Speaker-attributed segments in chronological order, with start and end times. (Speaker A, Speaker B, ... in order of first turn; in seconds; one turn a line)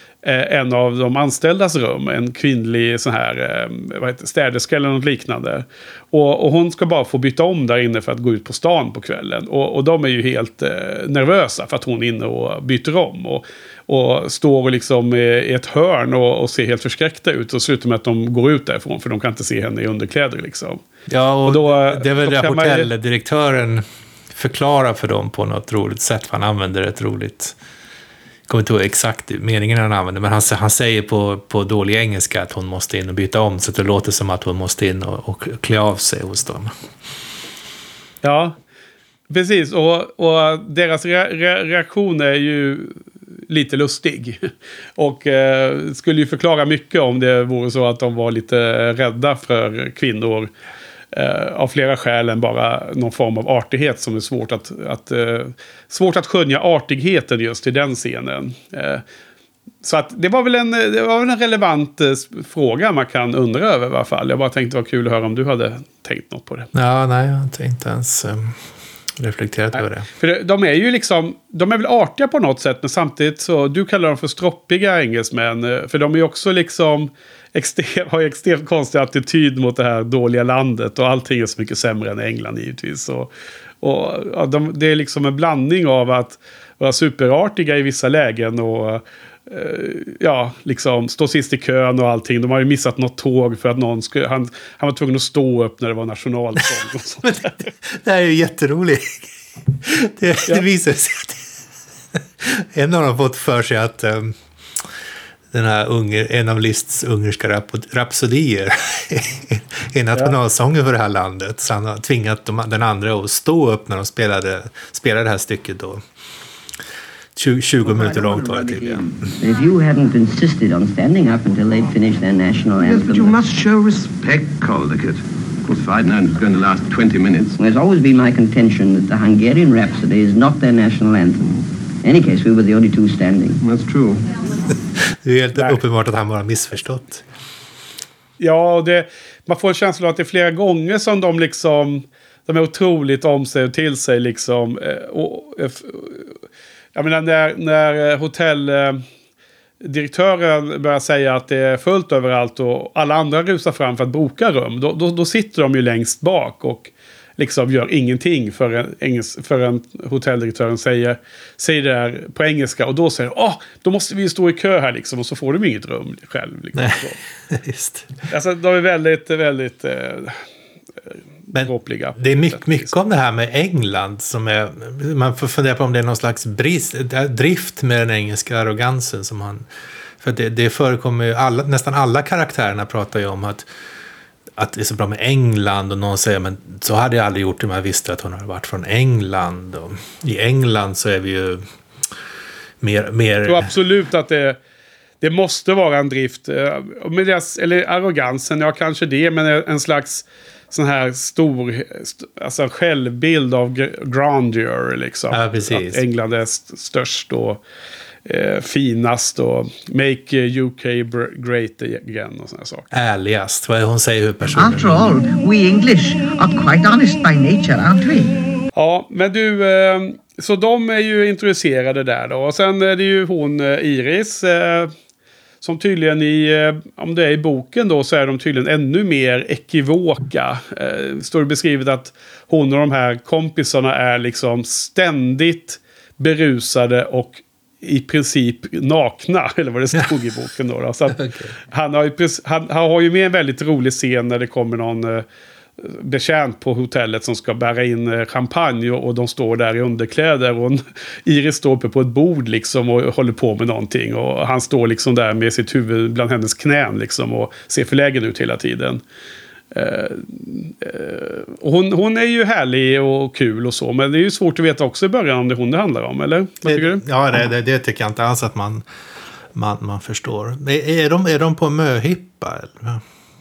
Speaker A: 0.2-20.8
Speaker B: 21.1-27.6
Speaker A: 21.4-22.9
Speaker B: 28.5-36.7
Speaker A: 38.2-38.6
Speaker A: 39.3-50.5
Speaker A: 51.1-59.0
Speaker A: 59.8-66.7
Speaker B: 66.7-68.6
Speaker B: 69.2-70.1
Speaker A: 69.7-83.3
Speaker A: 83.8-97.5
Speaker B: 97.2-99.3
Speaker B: 99.8-101.5
Speaker B: 102.4-104.8
Speaker B: 105.5-116.0
Speaker B: 117.4-119.3
Speaker C: 117.8-123.4
Speaker D: 122.8-127.6
Speaker C: 127.6-133.6
Speaker D: 133.6-134.3
Speaker B: 135.1-137.2
Speaker A: 135.6-135.8
Speaker A: 138.4-146.4
Speaker A: 146.9-149.0
Speaker A: 149.8-167.2
Speaker B: 166.8-168.1
Speaker A: 168.3-170.4
Speaker A: 171.5-172.9
Speaker B: 171.5-179.7
Speaker B: 180.2-183.7
Speaker B: 184.6-191.7
Speaker B: 192.8-193.7
Speaker A: 193.4-194.6
Speaker A: 195.2-207.6
Speaker B: 205.3-206.0
Speaker A: 208.3-212.9
Speaker B: 212.9-215.1
Speaker E: 214.5-218.4
Speaker A: 218.8-224.9
Speaker A: 225.6-245.2
Speaker B: 241.1-241.6
Speaker A: 245.8-259.0
Speaker A: 259.7-267.0
Speaker B: 266.6-268.9
Speaker B: 269.6-273.0